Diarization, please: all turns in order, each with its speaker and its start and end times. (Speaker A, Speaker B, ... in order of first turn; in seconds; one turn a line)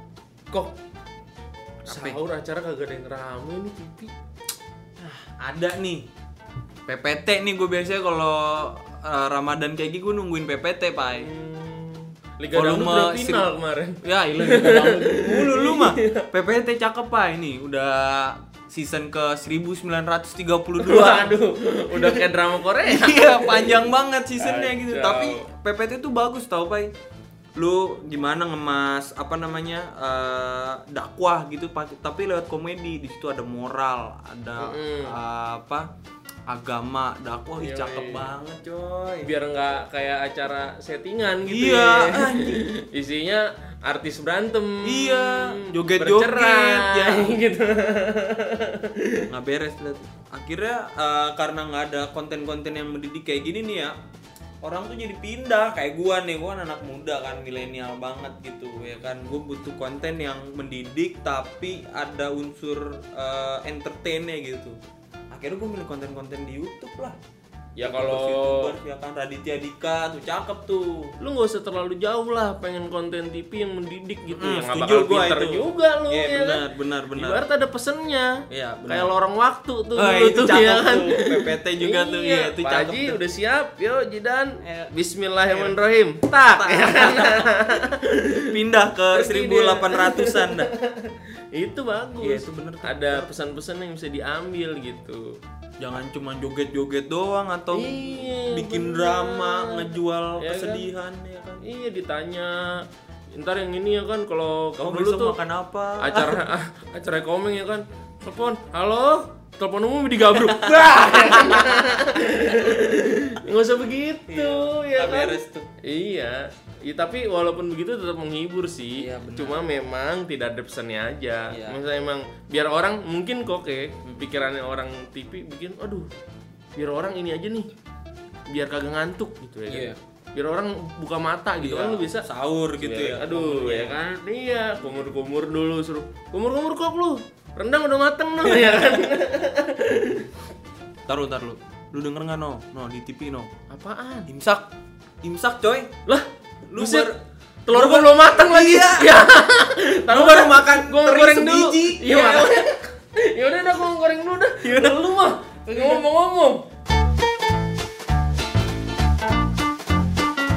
Speaker A: 1.9-4.1
Speaker B: 1.9-2.2
Speaker B: 5.0-6.1
Speaker B: 6.9-11.3
Speaker A: 11.1-16.2
Speaker B: 12.5-13.5
Speaker B: 14.0-21.4
Speaker A: 20.8-25.5
Speaker B: 21.9-22.3
Speaker B: 22.8-26.9
Speaker B: 27.6-35.9
Speaker A: 34.6-35.2
Speaker B: 36.5-39.3
Speaker A: 37.6-38.3
Speaker A: 39.2-49.3
Speaker B: 41.5-42.7
Speaker B: 44.8-47.4
Speaker B: 49.3-54.0
Speaker B: 54.6-64.8
Speaker B: 65.3-67.2
Speaker A: 67.8-68.8
Speaker B: 67.8-71.1
Speaker A: 71.2-88.5
Speaker B: 74.3-77.4
Speaker B: 78.5-79.1
Speaker B: 80.0-83.2
Speaker B: 84.6-84.9
Speaker B: 85.5-85.8
Speaker B: 86.5-87.5
Speaker B: 88.5-90.7
Speaker A: 89.1-95.4
Speaker B: 92.2-93.3
Speaker B: 95.8-101.6
Speaker A: 97.7-100.9
Speaker A: 101.6-105.4
Speaker B: 104.8-106.5
Speaker A: 106.0-126.1
Speaker B: 110.4-112.8
Speaker B: 114.3-115.7
Speaker B: 119.0-119.7
Speaker B: 121.5-121.8
Speaker A: 126.8-127.7
Speaker A: 128.5-140.3
Speaker B: 129.7-130.0
Speaker B: 131.6-134.0
Speaker B: 138.6-138.8
Speaker B: 141.1-143.5
Speaker A: 143.7-144.3
Speaker B: 144.3-144.7
Speaker B: 145.2-145.9
Speaker B: 146.7-147.1
Speaker A: 146.8-147.1
Speaker A: 147.7-156.7
Speaker B: 147.7-149.2
Speaker B: 150.1-152.6